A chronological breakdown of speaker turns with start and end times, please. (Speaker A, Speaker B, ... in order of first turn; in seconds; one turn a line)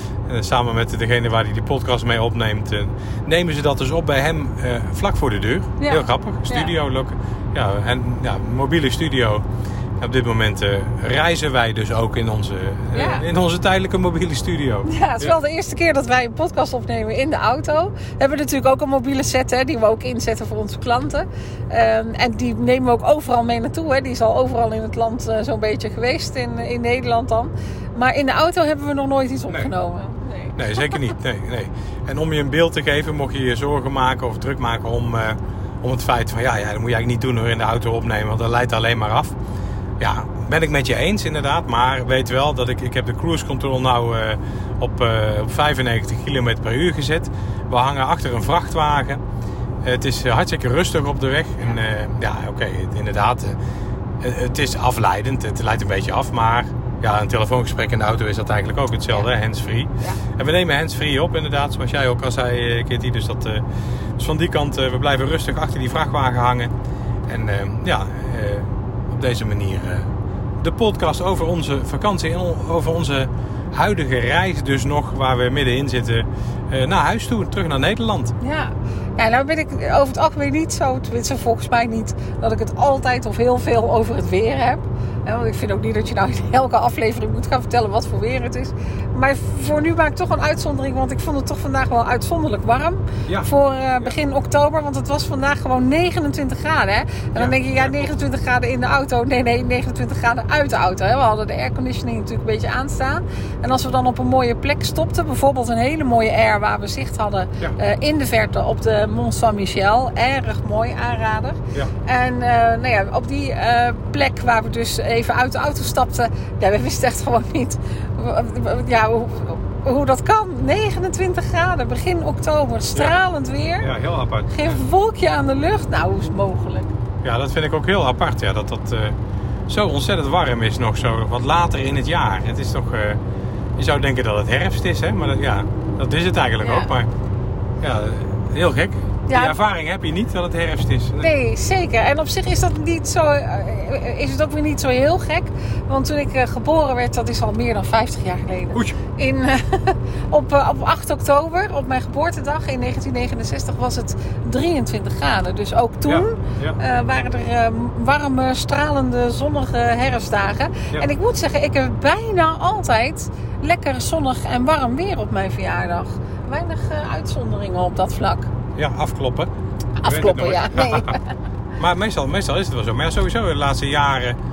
Speaker A: 0.3-9.4
Speaker B: 5.8-6.7
Speaker A: 10.0-15.3
Speaker B: 12.9-13.2
Speaker B: 14.8-31.0
Speaker A: 30.6-39.3
Speaker A: 40.0-49.2
Speaker A: 49.8-53.6
Speaker A: 54.2-63.6
Speaker A: 64.2-66.7
Speaker A: 67.3-70.1
Speaker A: 70.6-78.3
Speaker B: 78.4-123.9
Speaker A: 97.3-98.1
Speaker A: 123.8-124.8
Speaker B: 124.5-126.9
Speaker A: 127.2-129.2
Speaker A: 129.7-133.2
Speaker A: 133.8-137.1
Speaker B: 136.6-136.9
Speaker A: 137.8-141.3
Speaker B: 139.3-139.6
Speaker B: 141.2-168.5
Speaker A: 156.1-156.8
Speaker A: 168.8-169.5
Speaker B: 170.0-171.2
Speaker A: 170.0-171.1
Speaker A: 171.8-174.4